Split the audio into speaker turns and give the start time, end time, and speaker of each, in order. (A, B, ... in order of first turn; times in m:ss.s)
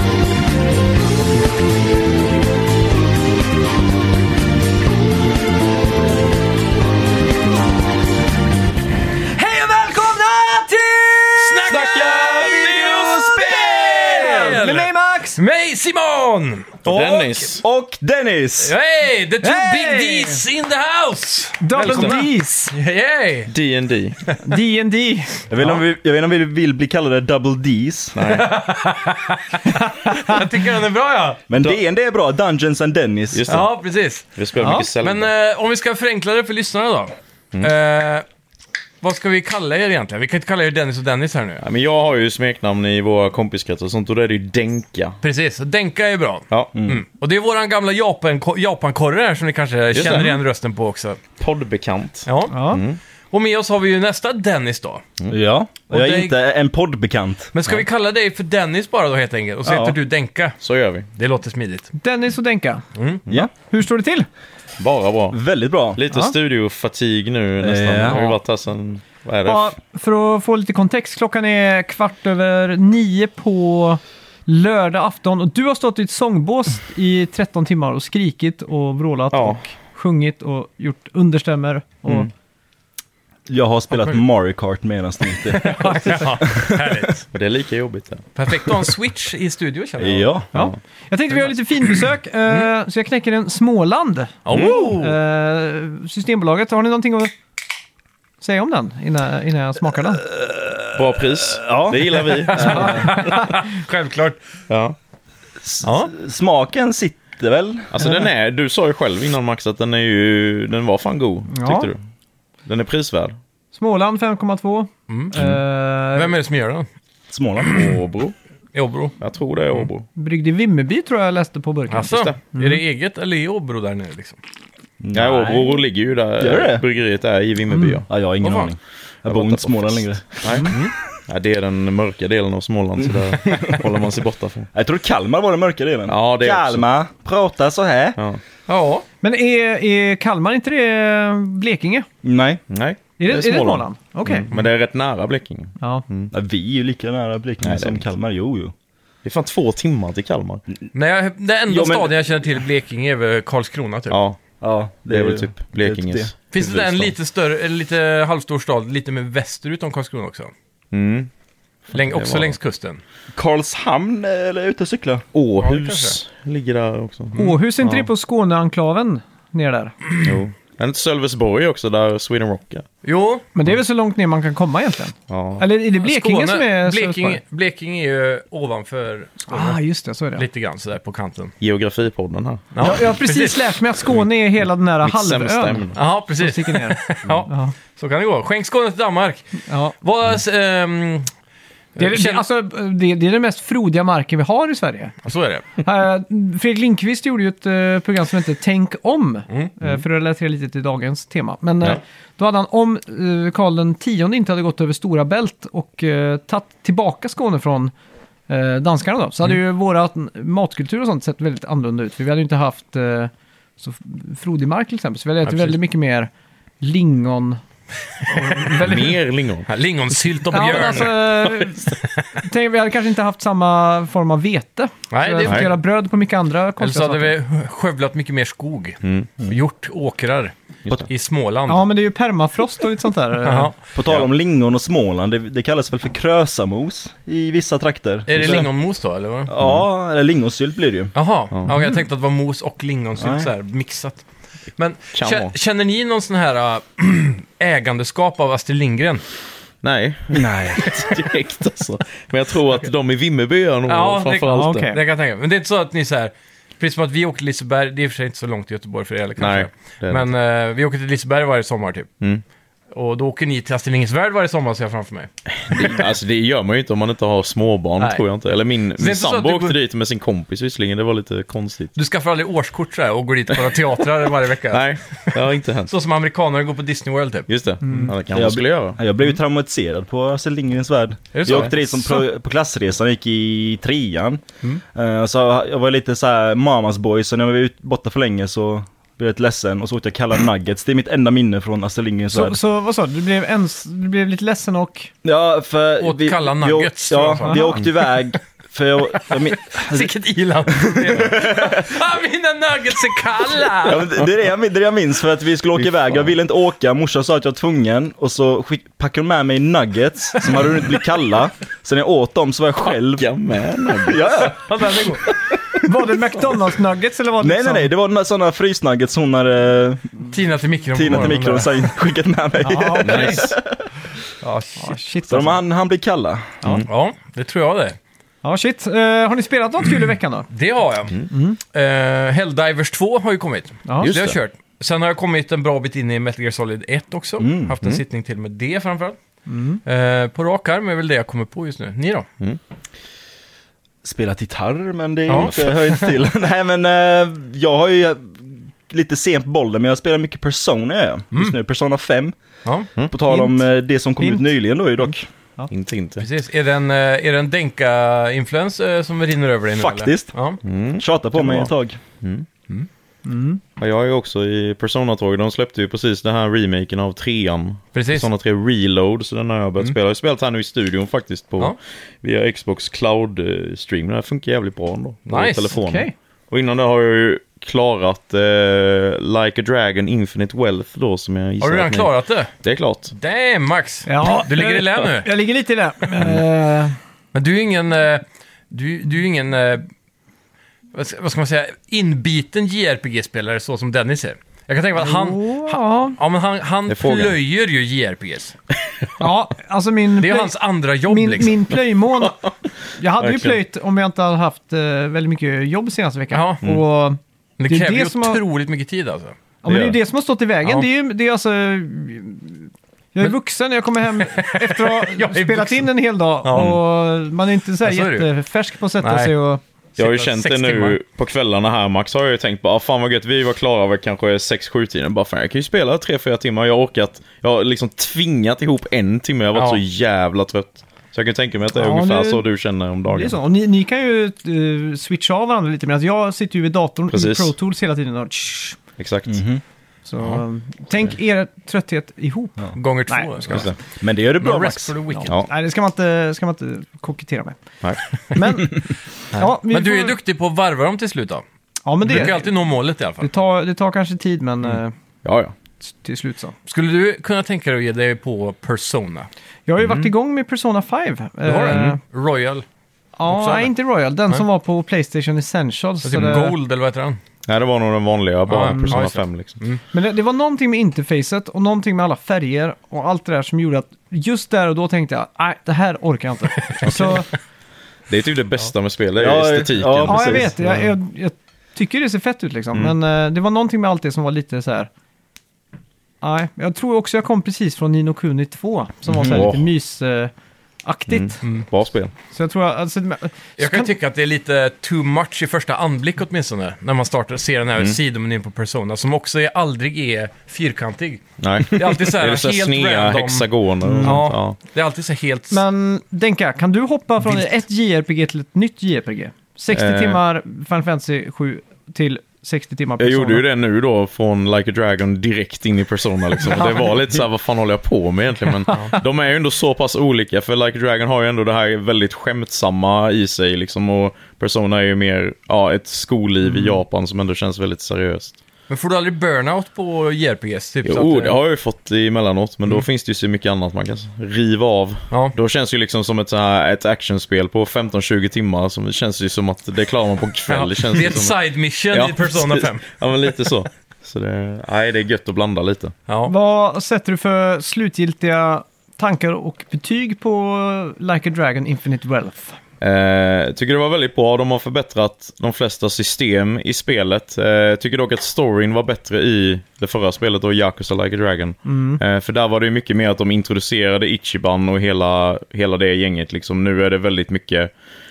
0:09.3-0:15.4 A
0:11.4-0:17.5 B
0:11.6-0:12.8 C
0:16.8-0:17.6 C
0:17.6-0:18.7 D
0:18.6-0:23.5 B
0:19.4-0:20.4 A
0:21.6-0:22.7 A
0:21.9-0:22.1 C
0:23.5-0:24.2 C
0:24.4-0:25.8 A
0:25.5-0:28.2 D
0:28.1-0:28.5 C
0:28.3-0:31.4 B
0:29.7-0:30.4 A
0:31.5-0:33.5 D
0:33.3-0:33.7 C
0:33.5-0:34.3 B
0:34.3-0:35.3 C
0:34.6-0:34.9 A
0:35.0-0:38.2 B
0:39.0-0:41.6 B
0:41.6-0:45.2 C
0:45.2-0:51.2 B
0:49.9-0:50.4 C
0:51.4-0:53.0 C
0:52.3-0:52.6 B
0:52.5-0:52.8 A
0:53.3-0:55.0 B
0:55.3-0:57.7 D
0:55.9-0:56.4 B
0:57.5-1:00.6 B
0:59.6-1:00.0 D
1:00.6-1:01.0 C
1:01.2-1:01.9 B
1:02.0-1:02.8 A
1:02.9-1:03.2 B
1:03.5-1:04.3 A
1:04.8-1:05.4 C
1:05.3-1:06.0 D
1:05.9-1:09.7 C
1:06.1-1:06.3 A
1:07.6-1:08.2 D
1:08.0-1:08.4 B
1:09.4-1:22.3 A
1:19.3-1:19.6 C
1:23.5-1:26.9 D
1:25.5-1:27.2 B
1:25.8-1:26.3 A
1:27.3-1:28.2 C
1:28.4-1:30.4 B
1:30.0-1:30.5 D
1:30.5-1:37.3 A
1:34.4-1:35.2 B
1:34.5-1:34.8 C
1:38.4-1:40.2 A
1:40.2-1:43.1 D
1:40.9-1:43.3 C
1:42.5-1:44.4 B
1:43.1-1:43.7 A
1:44.7-1:45.0 C
1:45.6-1:47.9 D
1:45.8-1:46.1 B
1:47.9-1:52.0 C
1:48.0-1:48.3 A
1:51.5-1:51.9 A
1:52.6-1:53.4 C
1:53.7-1:56.3 A
1:55.1-1:55.3 B
1:56.1-1:56.9 B
1:57.3-1:57.8 D
1:57.6-1:58.0 B
1:57.7-1:58.3 C
1:58.7-1:59.2 B
1:59.2-2:00.1 C
2:00.1-2:02.8 A
2:01.9-2:04.4 B
2:02.0-2:02.3 C
2:05.0-2:05.8 D
2:05.1-2:08.0 C
2:06.4-2:06.8 D
2:07.7-2:10.8 D
2:08.4-2:08.7 B
2:09.3-2:10.7 C
2:11.3-2:14.7 C
2:13.4-2:13.7 D
2:13.5-2:13.8 B
2:14.7-2:18.2 D
2:16.1-2:16.9 C
2:18.7-2:19.0 B
2:19.2-2:22.1 A
2:22.2-2:22.6 D
2:22.7-2:26.3 C
2:23.2-2:24.5 A
2:25.8-2:26.0 A
2:26.3-2:28.7 D
2:27.6-2:28.1 C
2:29.2-2:30.6 C
2:30.9-2:34.2 B
2:31.7-2:32.5 D
2:34.1-2:34.4 C
2:34.6-2:36.3 D
2:35.1-2:37.1 C
2:36.5-2:40.5 B
2:40.9-2:41.3 C
2:41.9-2:42.6 C
2:41.9-2:43.0 B
2:43.3-2:45.2 D
2:45.3-2:47.3 C
2:45.6-2:46.2 B
2:47.3-2:49.9 A
2:50.2-2:52.8 C
2:53.0-2:53.4 B
2:53.5-2:57.4 A
2:55.3-2:55.6 C
2:56.0-2:59.8 B
2:59.4-3:00.4 A
3:00.4-3:01.5 B
3:01.6-3:02.8 C
3:02.7-3:03.8 B
3:02.8-3:07.7 A
3:05.0-3:06.0 C
3:06.0-3:11.3 B
3:09.7-3:09.9 A
3:11.9-3:12.4 B
3:12.0-3:15.1 A
3:15.2-3:15.7 B
3:15.8-3:27.9 A
3:28.5-3:36.3 A
3:35.4-3:35.8 B
3:36.8-3:37.6 A
3:38.2-3:39.2 A
3:38.8-3:39.7 C
3:39.7-3:41.5 B
3:40.5-3:47.3 A
3:45.1-3:45.7 B
3:46.8-3:50.5 B
3:49.0-3:49.3 C
3:51.1-3:51.8 B
3:51.7-3:53.7 A
3:53.4-3:53.7 B
3:53.9-3:58.7 D
3:58.3-3:59.5 B
3:59.5-4:01.1 D
3:59.6-3:59.9 C
4:01.1-4:04.2 B
4:03.2-4:03.5 D
4:04.8-4:09.2 B
4:05.1-4:05.5 C
4:09.8-4:14.9 C
4:10.3-4:11.0 D
4:13.9-4:22.1 B
4:14.5-4:15.0 A
4:19.4-4:20.3 C
4:22.9-4:26.0 B
4:25.6-4:31.9 C
4:28.0-4:28.2 B
4:29.0-4:29.8 B
4:31.9-4:37.5 B
4:34.7-4:35.9 C
4:37.5-4:39.0 C
4:37.8-4:38.1 A
4:38.3-4:44.4 D
4:41.3-4:42.2 B
4:41.5-4:41.7 C
4:44.9-4:52.6 D
4:52.3-4:55.1 A
4:55.2-5:00.1 D
4:56.0-4:58.0 B
4:57.4-4:57.8 A
4:59.6-5:04.1 B
5:00.8-5:02.0 D
5:03.8-5:13.3 D
5:13.1-5:14.4 C
5:14.0-5:15.1 D
5:14.4-5:15.2 B
5:15.8-5:17.9 A
5:17.4-5:20.2 D
5:20.3-5:21.9 B
5:20.9-5:23.8 D
5:22.6-5:23.5 A
5:23.0-5:23.5 C
5:24.4-5:24.9 B
5:24.8-5:25.6 A
5:25.3-5:26.6 D
5:26.9-5:28.0 B
5:28.4-5:30.5 A
5:30.5-5:39.2 B
5:31.3-5:31.6 A
5:33.9-5:34.1 A
5:34.0-5:34.4 C
5:37.4-5:37.8 D
5:39.5-5:39.8 A
5:39.8-5:42.3 B
5:44.0-5:52.3 D
5:45.3-5:46.2 B
5:53.0-5:55.3 D
5:53.3-5:53.6 A
5:54.2-5:55.7 A
5:55.7-5:56.2 C
5:56.2-6:00.6 B
5:59.8-6:00.3 D
6:00.6-6:02.4 C
6:01.0-6:02.0 D
6:03.2-6:03.6 A
6:03.8-6:23.1 C
6:07.9-6:08.3 B
6:15.3-6:15.8 B
6:15.7-6:16.1 A
6:21.6-6:22.5 B
6:23.1-6:25.3 B
6:24.0-6:27.0 A
6:27.3-6:29.9 B
6:30.9-6:38.6 B
6:35.0-6:36.2 A
6:36.9-6:37.4 C
6:39.2-6:40.5 A
6:40.2-6:41.6 B
6:41.1-6:42.4 A
6:42.2-6:42.5 C
6:43.0-6:48.4 A
6:43.2-6:43.6 C
6:46.3-6:46.6 B
6:47.6-6:49.4 B
6:49.6-6:59.6 A
6:49.6-6:50.0 C
6:54.1-6:55.9 B
6:56.4-6:56.8 B
6:56.5-6:56.8 C
6:57.8-6:58.3 B
6:59.0-6:59.3 B
7:00.0-7:01.0 B
7:00.0-7:13.4 C
7:09.5-7:09.8 B
7:11.7-7:12.4 A
7:13.1-7:18.8 A
7:17.1-7:17.5 C
7:19.0-7:19.4 C
7:19.3-7:19.6 D
7:20.0-7:22.6 A
7:22.8-7:23.7 B
7:23.1-7:23.7 A
7:23.5-7:23.8 C
7:24.0-7:24.9 D
7:24.4-7:25.4 B
7:25.1-7:27.6 A
7:28.3-7:30.2 A
7:29.3-7:31.4 B
7:31.8-7:32.6 A
7:32.0-7:33.3 B
7:33.2-7:34.9 A
7:35.2-7:35.5 C
7:35.8-7:36.5 A
7:36.7-7:39.3 B
7:39.7-7:42.0 A
7:41.4-7:42.6 B
7:41.7-7:42.0 C
7:43.2-7:46.5 A
7:43.3-7:43.7 B
7:46.0-7:47.2 B
7:47.5-7:49.6 C
7:48.5-7:49.8 B
7:48.6-7:49.0 A
7:49.9-7:57.3 A
7:56.8-7:57.2 C
7:56.9-7:57.2 B
7:58.1-8:00.8 C
7:59.2-8:00.8 D
8:00.1-8:04.9 A
8:06.2-8:10.3 A
8:09.1-8:09.6 D
8:09.2-8:09.6 C
8:10.8-8:11.5 A
8:11.1-8:12.1 C
8:11.4-8:11.7 B
8:12.3-8:13.9 A
8:13.6-8:23.5 B
8:21.4-8:24.6 C
8:23.8-8:24.2 A
8:24.0-8:25.6 B
8:25.5-8:33.4 A
8:29.7-8:30.2 C
8:33.0-8:48.3 C
8:36.5-8:37.0 A
8:38.7-8:39.0 A
8:48.7-8:51.4 B
8:50.8-9:01.4 C
9:00.5-9:02.9 B
9:01.9-9:05.9 C
9:06.1-9:06.3 B
9:06.2-9:12.6 A
9:12.8-9:27.7 C
9:21.6-9:22.0 A